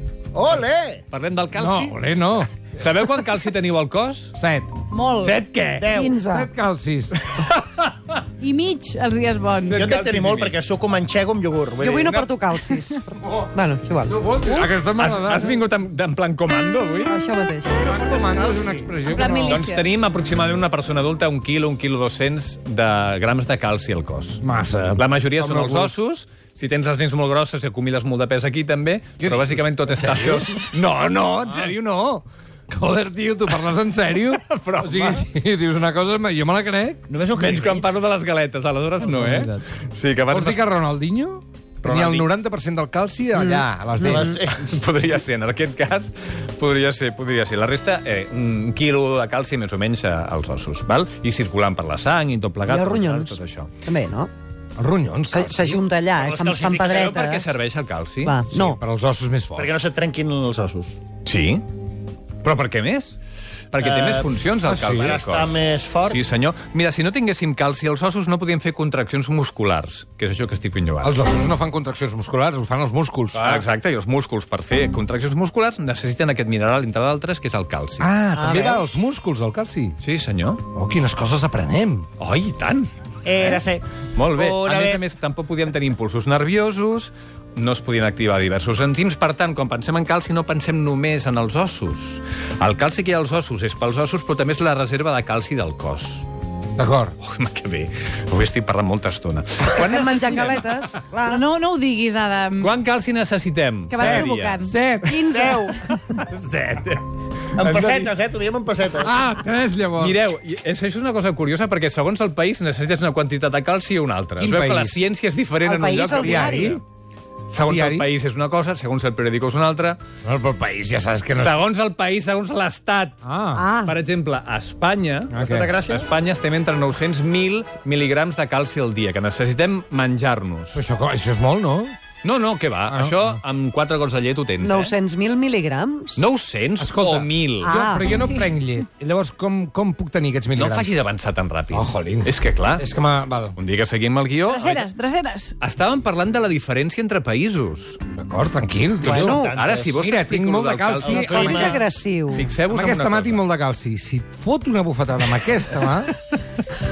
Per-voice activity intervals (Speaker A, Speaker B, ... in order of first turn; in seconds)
Speaker A: 0.3-1.0, 5.8-6.2, 9.7-12.3, 17.7-19.0, 37.1-37.9, 44.0-44.7, 56.1-57.2, 59.5-61.0, 63.8-66.2, 83.2-85.1, 105.3-105.7, 107.6-109.1, 125.4-126.0, 149.1-150.0, 151.0-151.8
Speaker B: 1.1-2.0, 2.6-4.3, 5.2-6.0, 7.1-8.2, 9.7-10.6, 14.9-17.2, 19.4-24.4, 24.9-31.8, 34.3-35.3, 37.3-40.6, 41.8-42.3, 44.5-53.7, 56.8-58.7, 61.2-61.6, 62.4-63.2, 63.7-65.5, 66.0-71.2, 73.3-78.1, 80.0-80.6, 82.2-82.9, 84.1-96.2, 97.2-100.9, 102.6-104.6, 106.1-107.1, 110.0-116.8, 117.5-120.0, 121.3-123.2, 123.8-130.8, 132.2-134.9, 136.2-137.7, 140.5-142.8, 143.6-144.9, 145.6-148.0, 149.0-151.8, 152.3-153.4
Speaker C: 1.5-2.5, 4.3-4.8, 6.2-7.2, 14.1-15.6, 17.7-19.6, 24.4-26.0, 29.2-37.1, 39.0-39.6, 40.3-44.4, 54.8-55.8, 58.5-59.8, 64.6-65.2, 71.0-73.6, 78.0-80.0, 80.7-82.1, 96.8-97.1, 104.0-105.3, 107.7-108.1, 109.0-110.2, 114.4-115.0, 116.1-116.8, 117.6-118.1, 120.2-121.6, 123.2-123.7, 125.3-125.8, 130.7-131.9, 132.9-133.4, 136.8-140.9, 141.7-143.6, 148.1-151.9, 152.6-156.1
Speaker D: 4.9-5.3, 8.4-9.7, 12.5-12.9, 19.0-19.8, 101.2-102.7, 103.9-104.7, 144.5-145.5
Speaker E: 6.0-6.5, 11.8-13.0, 13.5-14.2, 17.1-17.4, 52.6-54.3, 55.3-57.6, 58.2-58.8, 78.3-78.9, 99.6-101.4, 105.1-105.7, 115.6-116.7, 123.5-123.9, 134.6-136.2, 137.6-138.1, 149.1-149.5, 151.1-152.4